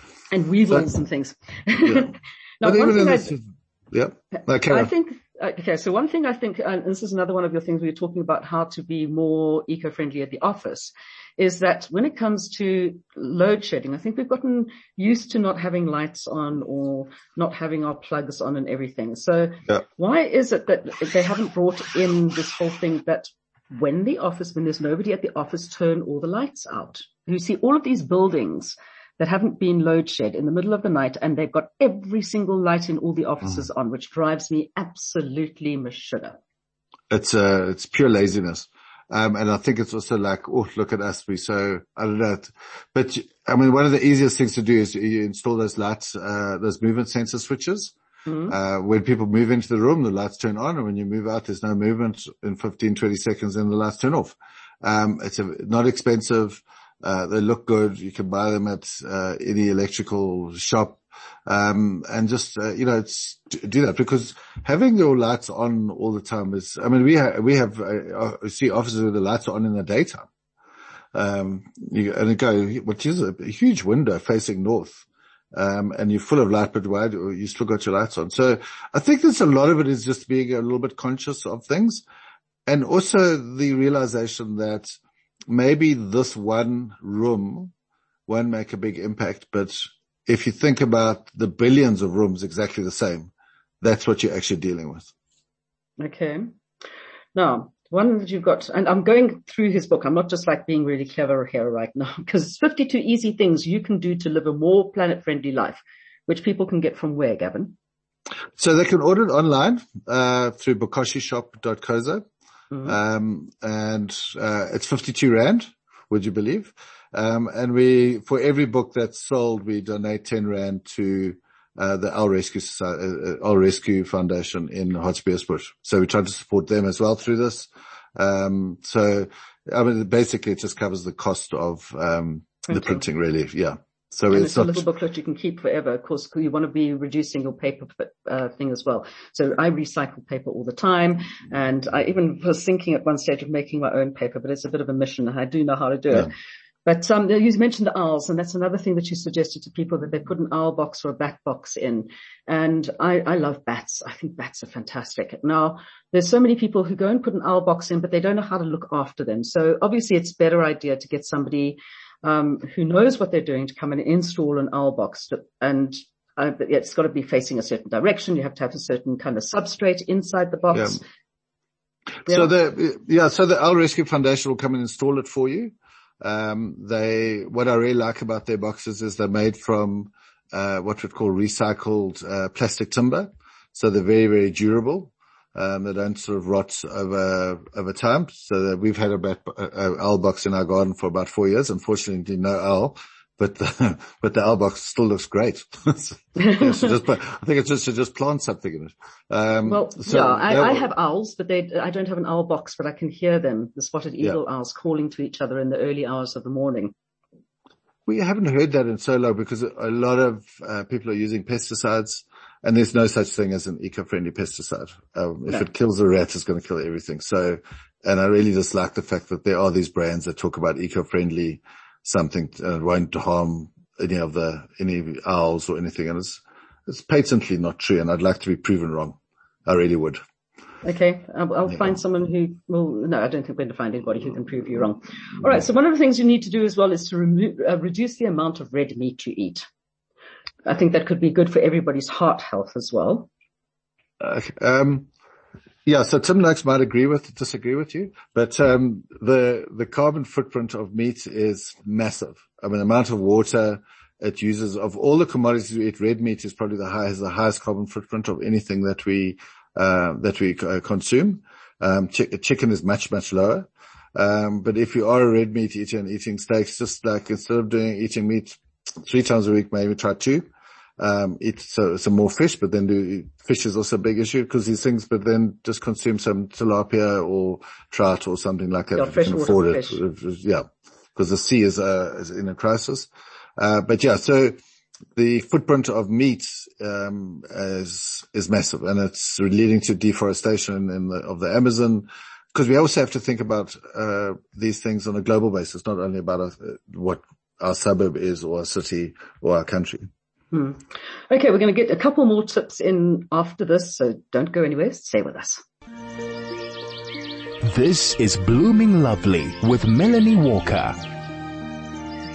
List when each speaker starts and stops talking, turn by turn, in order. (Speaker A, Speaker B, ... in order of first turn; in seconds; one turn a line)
Speaker A: 0.3-3.4
Speaker B: 1.8-2.1
Speaker B: 2.6-4.9
Speaker A: 4.7-36.4
Speaker B: 37.1-48.0
Speaker A: 48.3-48.5
Speaker B: 48.5-70.3
Speaker B: 71.1-82.0
Speaker B: 82.7-85.0
Speaker B: 85.5-87.7
Speaker B: 88.3-93.3
Speaker B: 93.8-95.1
Speaker A: 96.0-96.5
Speaker A: 97.3-107.8
Speaker B: 108.6-112.2
Speaker B: 112.8-134.8
Speaker A: 132.7-133.0
Speaker A: 134.3-146.3
Speaker A: 146.9-171.1
Speaker B: 172.3-200.9
Speaker A: 196.4-196.8
Speaker A: 199.7-206.9
Speaker B: 208.1-230.2
Speaker A: 230.8-239.7
Speaker A: 240.7-243.3
Speaker B: 244.2-245.1
Speaker B: 245.9-270.5
Speaker B: 271.0-284.6
Speaker A: 279.0-280.0
Speaker B: 285.1-300.1
Speaker A: 300.5-305.6
Speaker C: 307.6-311.0